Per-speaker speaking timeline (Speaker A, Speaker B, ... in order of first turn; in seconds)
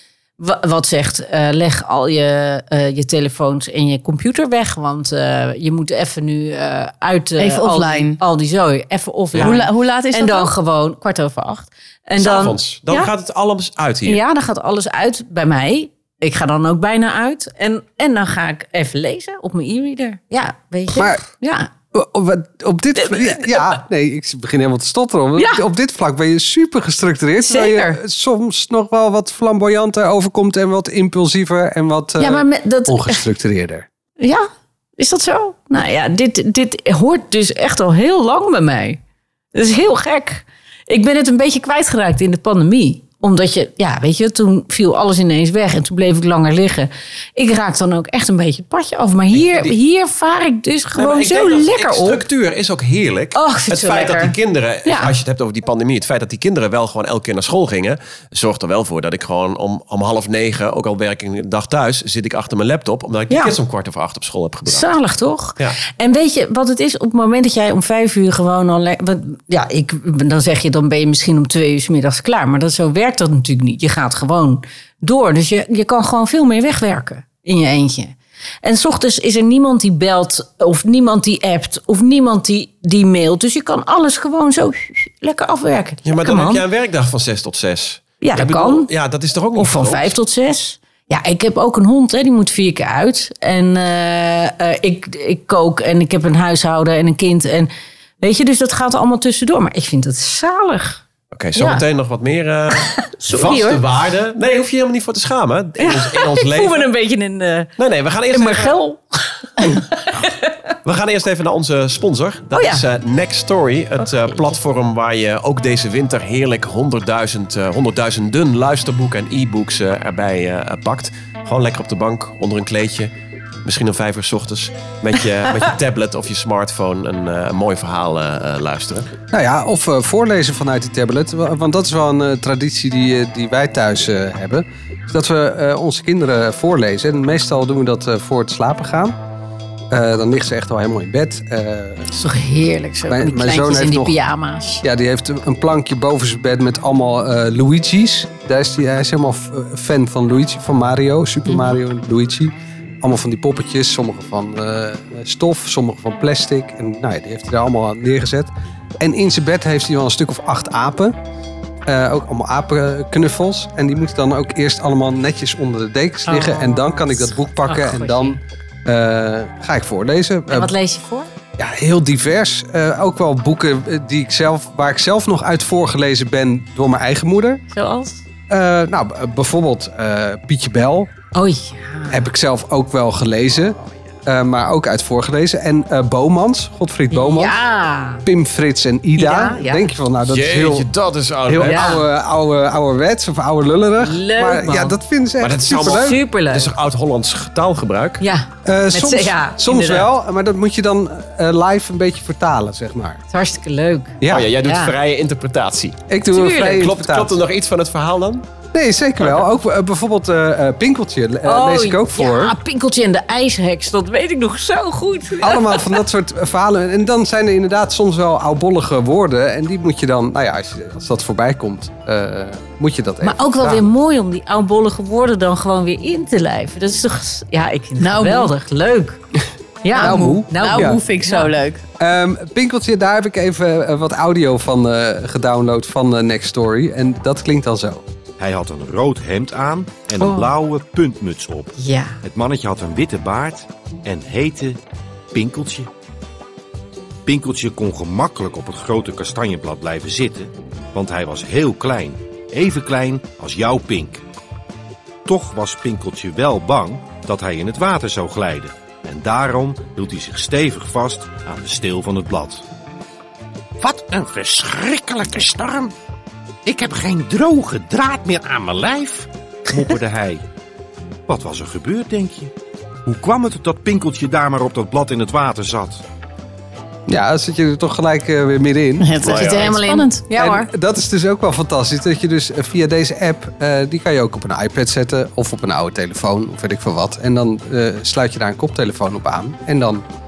Speaker A: 0.4-13.1, 14.1-21.7, 23.0-23.8, 25.4-25.6, 27.4-28.0, 32.2-33.2, 34.2-39.0, 39.5-52.2, 53.3-54.3, 54.9-55.1, 64.7-86.6, 88.2-88.9, 89.6-97.7, 98.2-101.0, 101.5-101.8, 102.7-103.8, 105.8-107.7, 108.3-110.5, 112.5-112.8, 114.0-114.4, 142.1-144.8, 151.5-151.8, 166.2-168.4, 170.5-171.3, 177.7-178.2, 181.3-182.2, 187.1-188.2, 189.2-189.9, 191.6-192.0, 194.0-194.9, 195.8-196.7, 198.2-200.1, 203.3-204.9, 206.3-206.8, 211.4-215.9, 223.2-229.2, 229.8-231.5, 240.2-240.5, 241.8-242.2, 279.3-280.7
Speaker B: 7.4-8.2, 9.4-10.5, 228.0-228.5, 229.9-231.8, 279.0-280.2
Speaker C: 9.3-9.6, 12.2-14.2, 49.3-49.8, 51.0-64.9, 86.0-90.2, 101.3-106.9, 107.8-108.8, 110.8-123.1, 123.6-129.1, 190.3-192.0, 195.4-198.2, 204.3-208.4, 209.2-209.4, 279.2-279.7
Speaker D: 20.9-21.2, 21.9-33.9, 129.3-139.2, 139.9-142.1, 143.1-144.2, 144.8-161.2, 161.8-170.7, 171.6-177.6, 178.5-181.1, 182.1-187.6, 188.2-190.9, 191.5-196.2, 198.6-203.2, 204.2-204.5, 206.1-207.3, 208.7-212.6, 215.4-223.8, 229.9-231.0, 232.0-238.0, 277.1-279.1, 280.3-290.1
Speaker E: 238.4-244.8, 245.3-245.9, 247.2-254.2, 255.2-262.6, 263.8-265.9, 266.6-270.4, 271.3-272.5, 273.1-276.0